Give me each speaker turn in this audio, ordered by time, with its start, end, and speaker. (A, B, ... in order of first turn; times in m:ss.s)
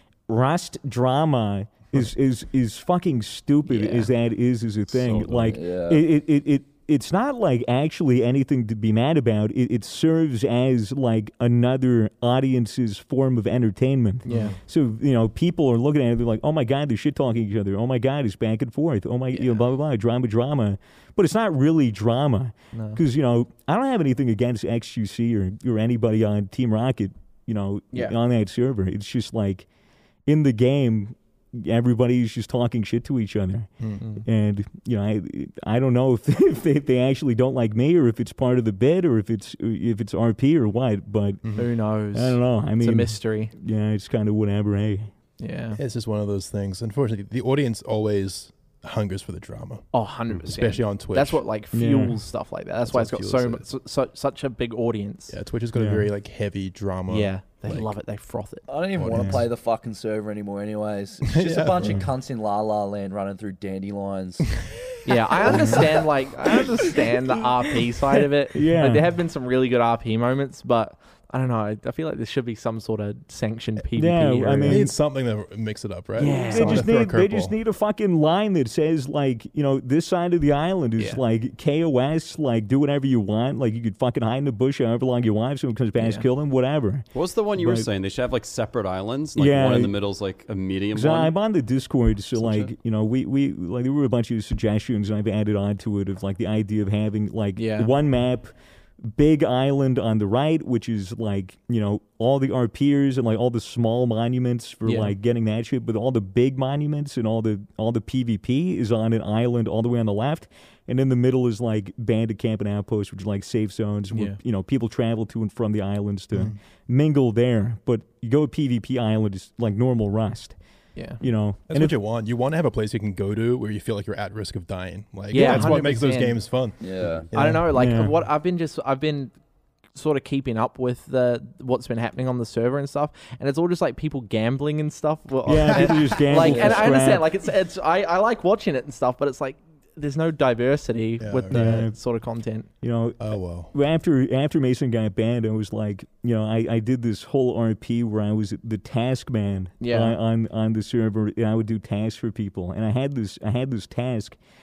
0:00.3-0:29.7 A
0:04.9-0:05.5 B
0:05.4-0:06.0 C
0:14.2-0:14.5 D
0:14.3-0:14.6 E
0:19.3-0:19.6 D
0:22.7-0:23.0 D
0:27.9-0:28.2 D
0:30.2-0:41.4 A
0:34.0-0:34.2 D
0:41.4-0:41.7 E
0:41.6-0:43.5 D
0:42.1-0:45.1 A
0:45.4-0:45.8 D
0:45.7-0:51.4 E
0:49.9-0:55.3 D
0:51.7-0:52.2 A
0:52.8-0:53.7 E
0:55.3-0:57.9 E
0:55.7-0:56.1 A
0:57.1-0:58.7 D
0:58.7-1:04.6 C
0:59.0-0:59.5 E
1:01.3-1:02.0 E
1:05.0-1:14.9 D
1:05.5-1:05.8 A
1:08.5-1:09.1 A
1:13.9-1:14.9 A
1:14.6-1:17.6 E
1:16.2-1:16.9 D
1:16.4-1:27.9 A
1:21.0-1:21.2 D
1:26.0-1:26.2 D
1:27.1-1:31.3 B
1:29.4-1:30.0 A
1:30.9-1:38.5 A
1:32.4-1:32.7 B
1:37.6-1:37.9 D
1:39.0-2:00.5 A
1:44.8-1:45.2 D
1:54.1-1:54.4 D
2:00.9-2:01.2 D
2:01.2-2:02.0 A
2:01.7-2:07.7 E
2:05.3-2:06.4 D
2:05.3-2:05.8 A
2:06.8-2:07.3 C
2:07.3-2:09.3 D
2:07.7-2:08.2 A
2:09.9-2:22.7 D
2:15.4-2:17.3 A
2:15.5-2:16.8 E
2:21.2-2:21.9 E
2:21.5-2:22.0 A
2:22.8-2:34.4 A
2:23.2-2:23.7 E
2:29.8-2:30.2 D